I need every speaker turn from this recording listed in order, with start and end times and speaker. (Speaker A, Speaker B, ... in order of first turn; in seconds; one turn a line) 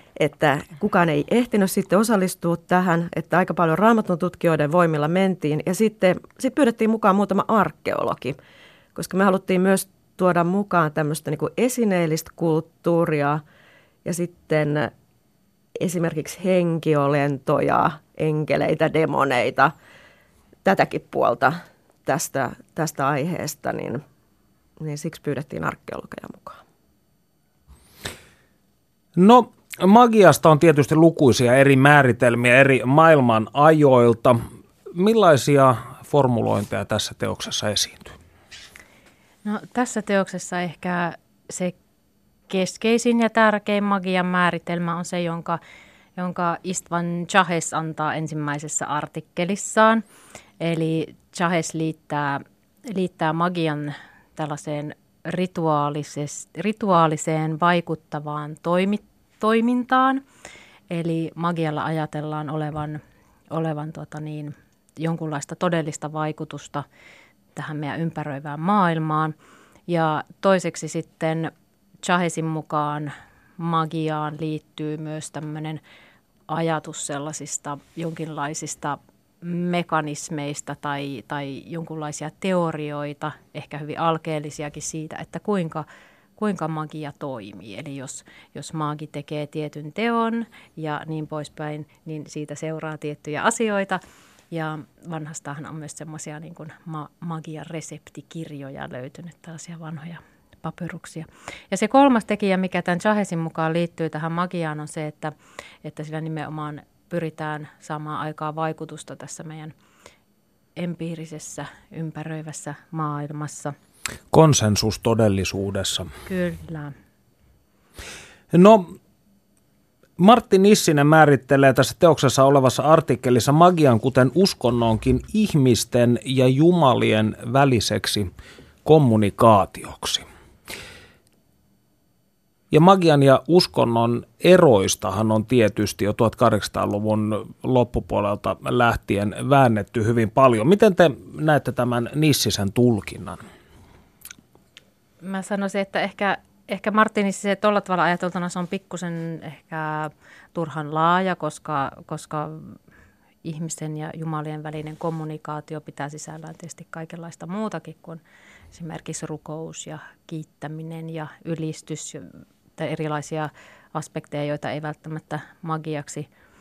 Speaker A: 0.2-8.4
Speaker A: 8.9-13.4
Speaker A: 14.1-14.9
Speaker A: 15.8-19.7
Speaker A: 20.6-24.0
Speaker A: 24.8-26.6
Speaker B: 29.2-38.2
Speaker C: 39.4-41.8
Speaker C: 42.5-45.6
Speaker C: 46.2-50.0
Speaker C: 50.6-60.2
Speaker C: 60.9-63.0
Speaker C: 63.5-66.9
Speaker C: 67.5-69.3
Speaker C: 69.9-71.5
Speaker C: 72.0-75.8
Speaker C: 76.5-85.9
Speaker C: 86.4-94.0
Speaker C: 94.5-109.8
Speaker C: 110.8-113.8
Speaker B: 114.3-116.1
Speaker C: 116.3-117.0
Speaker B: 118.5-119.0
Speaker B: 120.2-128.3
Speaker B: 128.8-130.3
Speaker B: 132.7-143.4
Speaker C: 145.2-152.8
Speaker C: 153.4-158.2
Speaker C: 158.7-166.3